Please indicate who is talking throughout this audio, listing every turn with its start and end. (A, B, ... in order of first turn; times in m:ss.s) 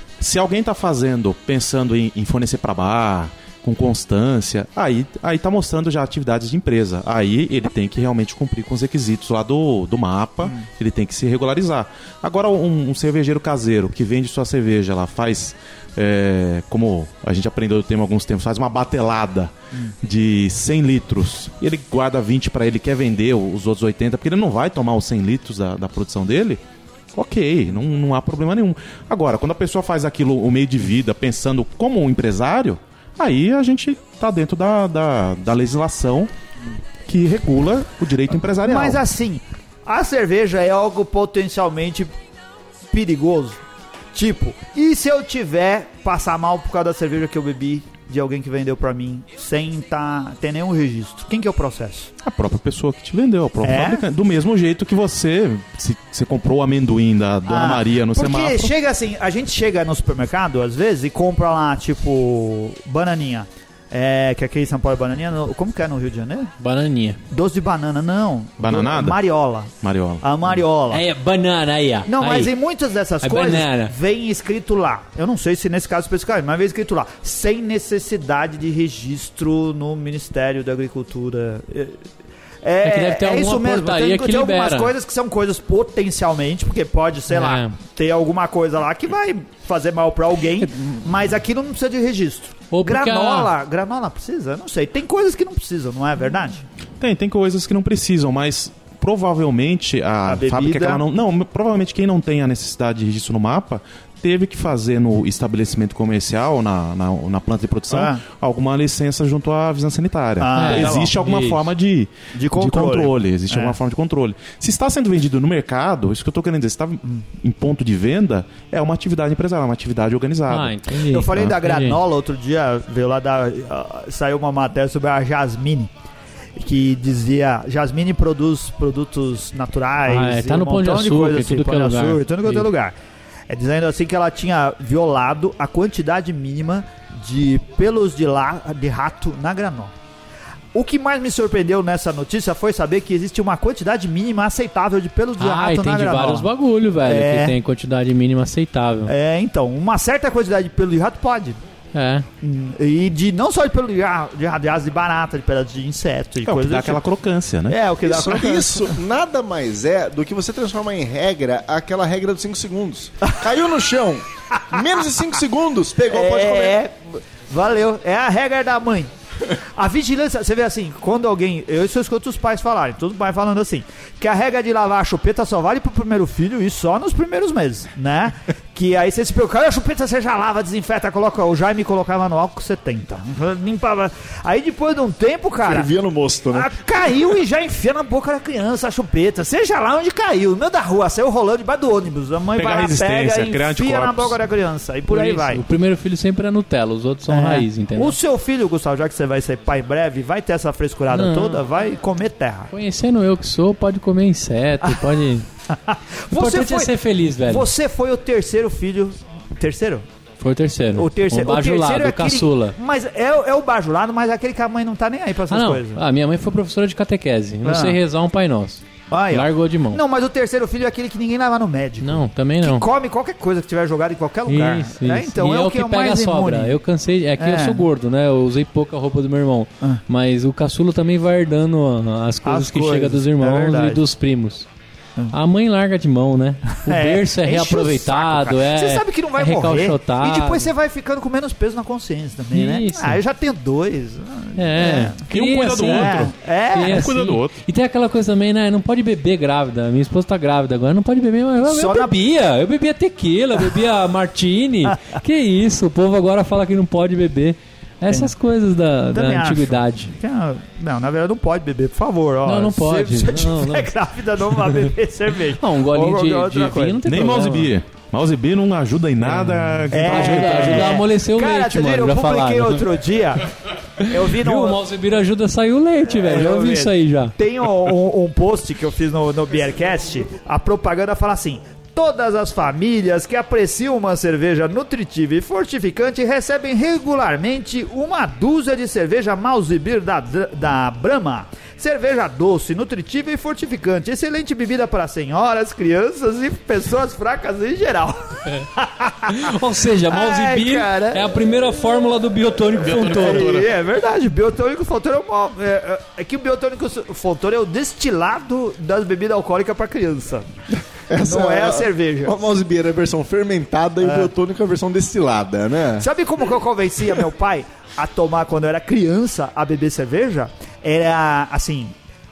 0:00.2-0:26.6 A
0:27.1-0:36.3 A
0:37.1-0:39.0 A
0:38.6-0:42.2 B
0:42.9-0:43.6 B
0:44.1-0:52.1 B
0:52.2-0:58.7 A
0:53.6-0:54.0 B
0:57.5-1:06.5 B
1:06.6-1:07.2 C
1:07.3-1:11.0 B
1:08.6-1:09.2 A
1:09.8-1:10.2 A
1:10.9-1:12.5 C
1:12.1-1:22.0 B
1:13.2-1:13.9 C
1:22.6-1:36.6 B
1:22.8-1:24.9 C
1:27.3-1:27.7 C
1:32.7-1:33.5 C
1:37.0-2:00.7 A
1:40.3-1:41.0 B
1:47.9-1:48.2 B
1:50.4-1:51.1 B
1:50.6-1:51.7 C
1:52.3-1:53.8 B
2:00.5-2:02.0 C
2:01.0-2:05.9 B
2:06.6-2:12.9 B
2:10.1-2:12.7 C
2:13.5-2:19.9 B
2:20.7-2:26.5 B
2:25.4-2:29.1 C
2:27.1-2:27.6 B
2:29.1-2:31.6 B
2:31.9-2:32.3 C
2:32.4-2:37.0 B
2:36.4-2:37.8 A
2:37.7-2:38.9 B
2:38.0-2:46.8 D
2:46.1-3:05.9 B
3:05.6-3:06.7 D
3:06.5-3:15.6 B
3:12.6-3:14.4 A
3:15.1-3:18.2 C
3:17.3-3:22.7 B
3:21.1-3:21.6 C
3:22.7-3:25.5 C
3:25.7-3:30.1 B
3:26.3-3:27.7 C
3:30.4-3:32.8 C
3:31.0-3:36.0 B
3:35.5-3:40.0 C
3:37.6-3:38.0 B
3:39.1-3:46.8 B
3:42.0-3:42.9 C
3:44.5-3:54.7 C
3:47.4-3:47.8 B
3:52.4-3:54.0 B
3:55.3-4:00.7 C
3:56.8-4:05.3 B
4:02.5-4:03.2 C
4:04.6-4:20.1 C
4:05.3-4:07.6 A
4:05.8-4:07.2 B
4:11.6-4:12.2 B
4:19.1-4:27.0 B
4:22.5-4:23.9 C
4:25.6-4:27.7 C
4:27.1-4:31.0 A
4:29.2-4:32.8 C
4:29.9-4:33.5 B
4:34.0-4:34.8 B
4:34.1-4:37.3 C
4:36.1-4:59.6 B
4:59.3-5:03.6 C
5:00.1-5:01.3 B
5:02.8-5:03.7 A
5:02.9-5:10.5 B
5:11.1-5:16.1 D
5:11.2-5:12.4 B
5:14.0-5:14.3 B
5:16.0-5:22.0 B